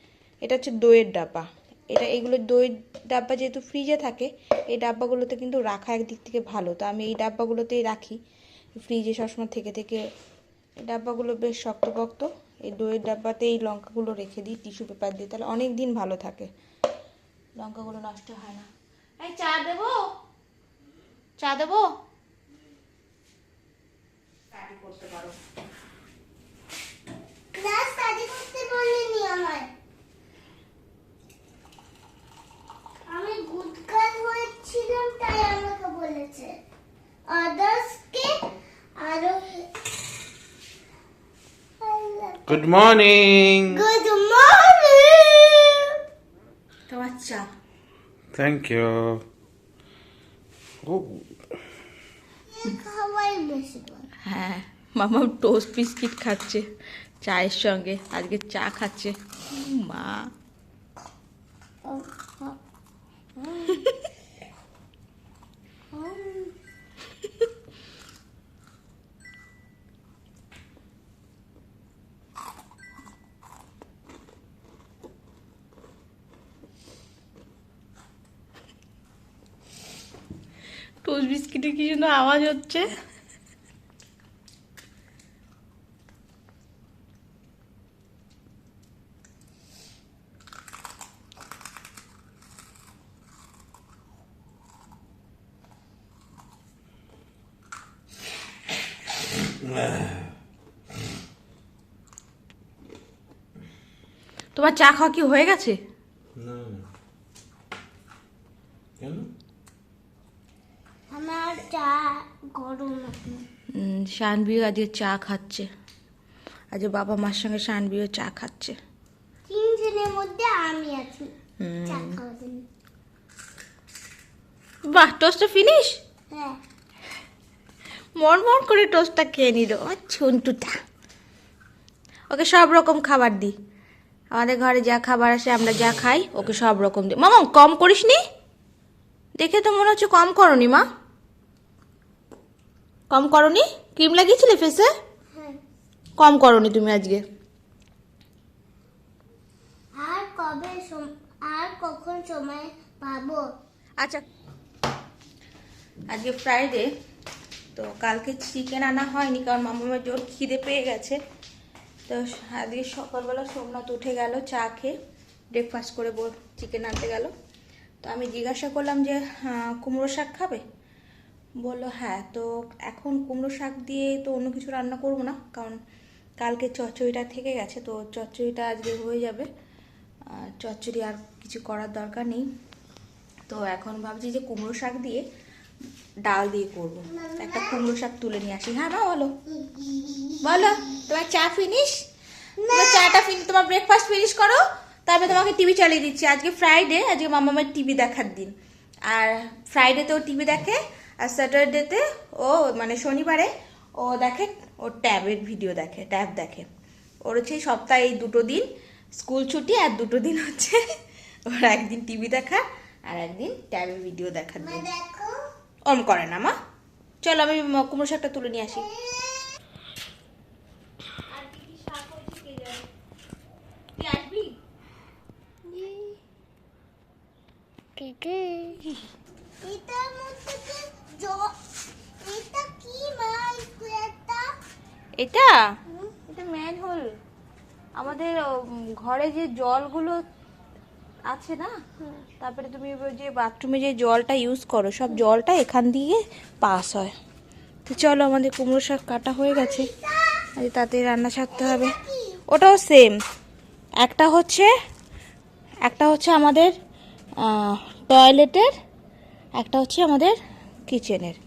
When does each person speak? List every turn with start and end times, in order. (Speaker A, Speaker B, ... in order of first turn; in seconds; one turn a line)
Speaker A: 0.4-8.2
Speaker A: 8.8-10.1
Speaker A: 10.8-16.5
Speaker A: 17.6-18.7
Speaker A: 19.2-20.0
Speaker A: 21.4-21.9
Speaker A: 24.5-25.4
Speaker B: 27.5-29.7
Speaker B: 33.1-36.5
Speaker B: 37.3-38.4
Speaker B: 39.0-39.6
Speaker B: 41.8-42.7
Speaker C: 42.5-43.8
Speaker B: 43.7-45.9
Speaker A: 46.9-47.5
Speaker C: 48.3-49.2
Speaker C: 50.8-51.3
Speaker B: 52.5-54.1
Speaker A: 54.2-56.6
Speaker A: 57.2-60.3
Speaker B: 61.9-62.6
Speaker B: 63.4-63.8
Speaker A: 63.7-64.0
Speaker B: 65.9-66.5
Speaker A: 81.0-82.9
Speaker C: 99.6-100.3
Speaker A: 104.5-105.8
Speaker C: 106.4-106.8
Speaker C: 109.0-109.3
Speaker B: 111.1-113.4
Speaker A: 113.8-115.7
Speaker A: 116.7-118.8
Speaker B: 119.5-121.3
Speaker A: 121.6-122.2
Speaker B: 121.9-122.6
Speaker A: 124.9-126.0
Speaker B: 126.3-126.6
Speaker A: 128.2-130.8
Speaker A: 132.3-133.5
Speaker A: 134.3-138.2
Speaker A: 139.4-140.8
Speaker A: 143.1-144.9
Speaker B: 145.3-145.6
Speaker A: 146.2-147.2
Speaker B: 150.0-153.4
Speaker A: 154.0-154.2
Speaker A: 156.1-156.9
Speaker A: 157.8-161.2
Speaker A: 162.1-164.9
Speaker A: 165.5-167.3
Speaker A: 168.0-170.6
Speaker A: 171.6-175.8
Speaker A: 176.4-179.5
Speaker A: 180.3-182.5
Speaker A: 183.5-185.2
Speaker A: 186.3-189.3
Speaker B: 187.1-187.9
Speaker B: 189.5-190.7
Speaker A: 190.4-192.0
Speaker B: 192.6-193.2
Speaker A: 192.7-198.5
Speaker A: 199.1-206.7
Speaker A: 207.2-210.8
Speaker A: 211.5-214.8
Speaker B: 214.6-215.3
Speaker A: 215.9-216.6
Speaker A: 217.2-218.9
Speaker B: 218.7-219.6
Speaker A: 221.3-222.9
Speaker A: 224.0-224.6
Speaker B: 225.7-226.2
Speaker B: 228.0-228.8
Speaker B: 229.6-231.5
Speaker B: 232.2-234.5
Speaker A: 235.2-235.6
Speaker A: 236.3-237.1
Speaker A: 238.0-240.2
Speaker A: 241.3-241.7
Speaker A: 242.4-247.1
Speaker A: 247.9-249.9
Speaker B: 249.5-250.5
Speaker A: 250.6-251.9
Speaker B: 251.5-252.4
Speaker A: 252.5-253.1
Speaker A: 254.0-254.7
Speaker A: 255.8-256.7
Speaker A: 257.4-258.7
Speaker A: 259.6-260.4
Speaker A: 260.9-261.4